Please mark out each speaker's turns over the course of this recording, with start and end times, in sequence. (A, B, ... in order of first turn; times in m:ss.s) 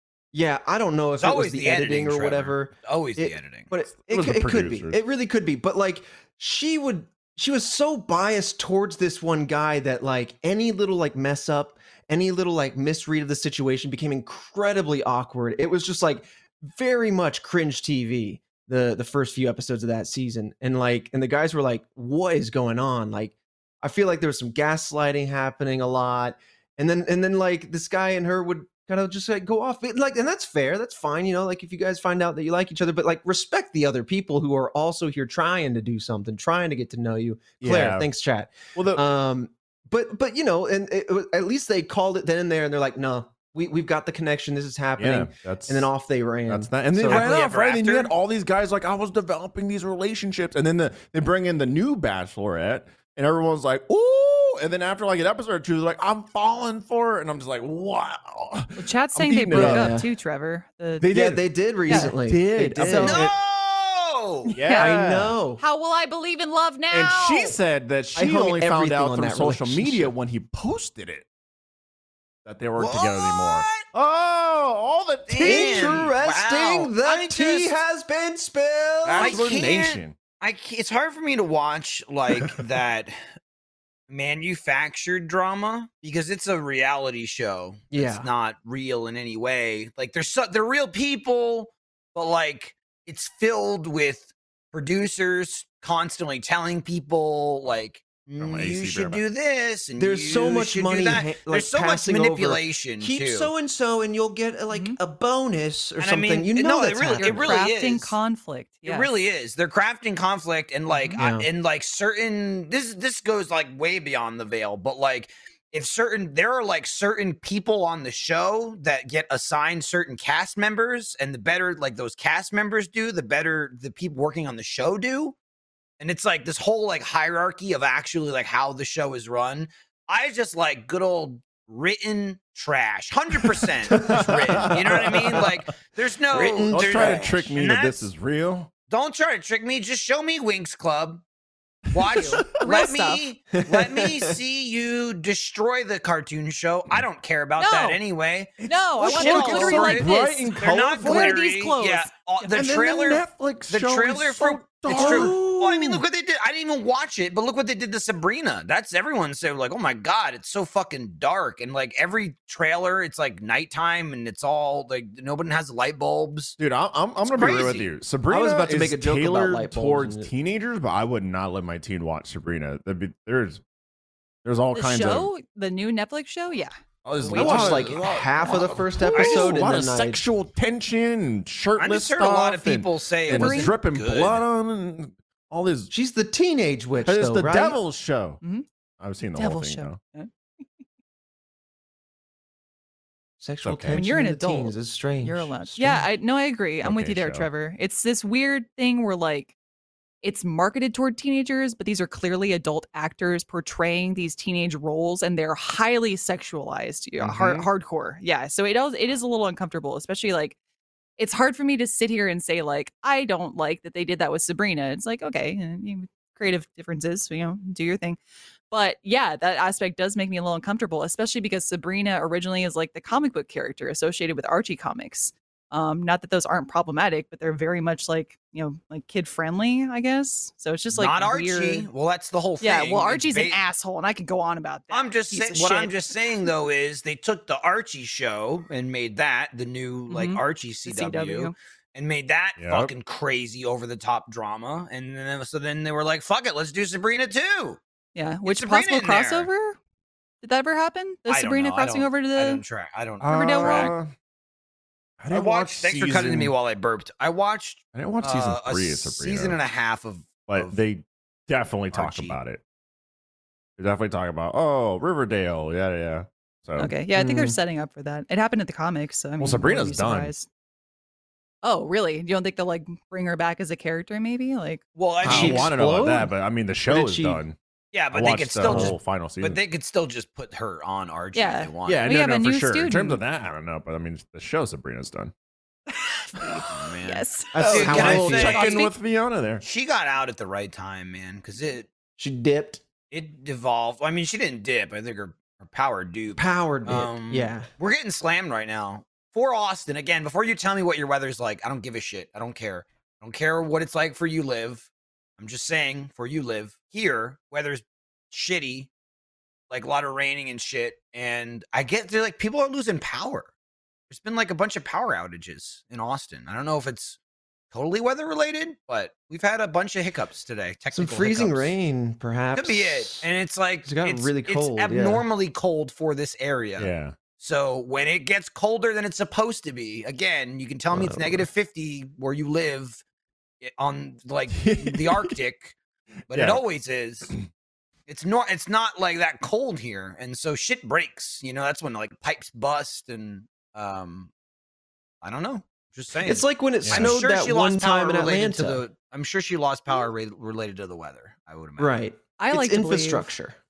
0:00.3-0:47.4 A
0:01.2-0:03.7 B
0:04.1-0:05.0 C
0:37.6-0:38.1 C
0:38.8-0:39.0 C
0:45.0-0:45.9 C
0:46.5-1:00.0 C
0:47.0-0:48.1 B
0:58.8-1:01.4 D
0:59.5-1:00.1 A
1:01.0-1:03.2 C
1:01.0-1:03.4 A
1:01.9-1:02.2 D
1:02.8-1:03.3 D
1:02.8-1:04.5 B
1:04.4-1:05.0 D
1:04.6-1:05.4 C
1:04.8-1:05.6 A
1:05.6-1:07.6 D
1:06.9-1:11.3 C
1:08.2-1:10.1 A
1:12.4-1:16.1 C
1:12.8-1:13.8 B
1:15.3-1:17.8 B
1:15.4-1:19.4 A
1:19.0-1:20.2 C
1:19.0-1:23.2 B
1:24.1-1:43.5 B
1:27.9-1:28.3 A
1:38.4-1:39.2 C
1:40.0-1:47.7 A
1:44.7-1:45.0 D
1:46.0-1:48.2 B
1:47.1-1:49.1 D
1:48.8-2:05.4 B
1:50.9-1:51.2 D
1:51.2-1:51.5 A
2:06.0-2:18.1 B
2:13.5-2:15.7 C
2:13.9-2:14.8 A
2:16.3-2:17.5 A
2:16.6-2:18.7 C
2:18.9-2:21.2 B
2:21.9-2:46.6 B
2:22.0-2:22.5 C
2:22.1-2:23.2 D
2:23.6-2:24.3 A
2:27.6-2:28.0 D
2:28.7-2:32.8 D
2:28.7-2:31.4 C
2:32.5-2:36.0 C
2:34.9-2:35.6 A
2:46.6-2:53.6 C
2:47.2-2:47.9 B
2:48.3-2:50.3 A
2:54.4-2:55.3 C
2:54.7-2:56.7 D
2:57.0-3:05.9 C
2:57.3-3:00.2 A
2:57.3-2:57.9 D
2:57.3-2:58.5 B
2:59.1-2:59.7 B
3:01.8-3:04.4 B
3:03.3-3:03.8 D
3:05.9-3:07.8 A
3:07.0-3:08.4 C
3:09.0-3:10.0 C
3:09.4-3:10.3 D
3:13.4-3:16.1 A
3:13.6-3:14.1 C
3:13.9-3:19.6 D
3:16.8-3:17.5 C
3:20.2-3:30.6 D
3:27.2-3:27.7 C
3:31.2-3:38.2 D
3:38.7-3:51.9 D
3:50.9-3:53.6 B
3:52.6-3:56.5 D
3:54.9-4:07.8 B
4:00.1-4:01.6 D
4:02.6-4:02.9 C
4:08.2-4:09.8 D
4:08.5-4:09.5 B
4:10.4-4:12.6 D
4:11.3-4:13.9 B
4:13.2-4:14.1 C
4:13.2-4:13.9 D
4:15.2-4:16.5 C
4:15.3-4:20.8 B
4:17.9-4:19.6 C
4:20.5-4:22.6 C
4:21.9-4:22.4 B
4:23.8-4:26.9 C
4:26.8-4:30.5 D
4:27.1-4:27.6 A
4:29.4-4:30.3 C
4:31.6-4:34.8 D
4:35.0-4:35.7 B
4:35.2-4:36.3 A
4:35.2-4:37.6 C
4:36.9-4:37.4 A
4:37.9-4:42.0 B
4:38.1-4:39.6 C
4:38.6-4:39.0 A
4:41.3-4:43.2 D
4:41.8-4:45.3 C
4:46.0-4:46.4 D
4:46.4-4:46.6 C
4:46.6-4:48.9 B
4:47.0-4:48.9 D
4:47.5-4:48.7 A
4:47.6-4:49.6 C
4:49.6-4:51.9 B
4:52.2-4:52.8 A
4:53.1-5:08.9 B
4:56.4-4:57.7 A
5:09.7-5:13.5 B
5:14.1-5:17.2 B
5:17.7-5:21.8 B
5:20.9-5:23.3 A
5:22.5-5:33.0 B
5:23.8-5:25.2 A
5:26.8-5:27.2 C
5:33.6-5:35.8 B
5:34.5-5:35.4 C
5:36.3-5:36.6 C
5:36.3-5:37.3 B
5:38.1-5:44.3 B
5:45.2-5:52.0 B
5:46.2-5:48.8 A
5:46.8-5:47.2 C
5:51.8-5:53.6 A
5:52.4-5:53.3 D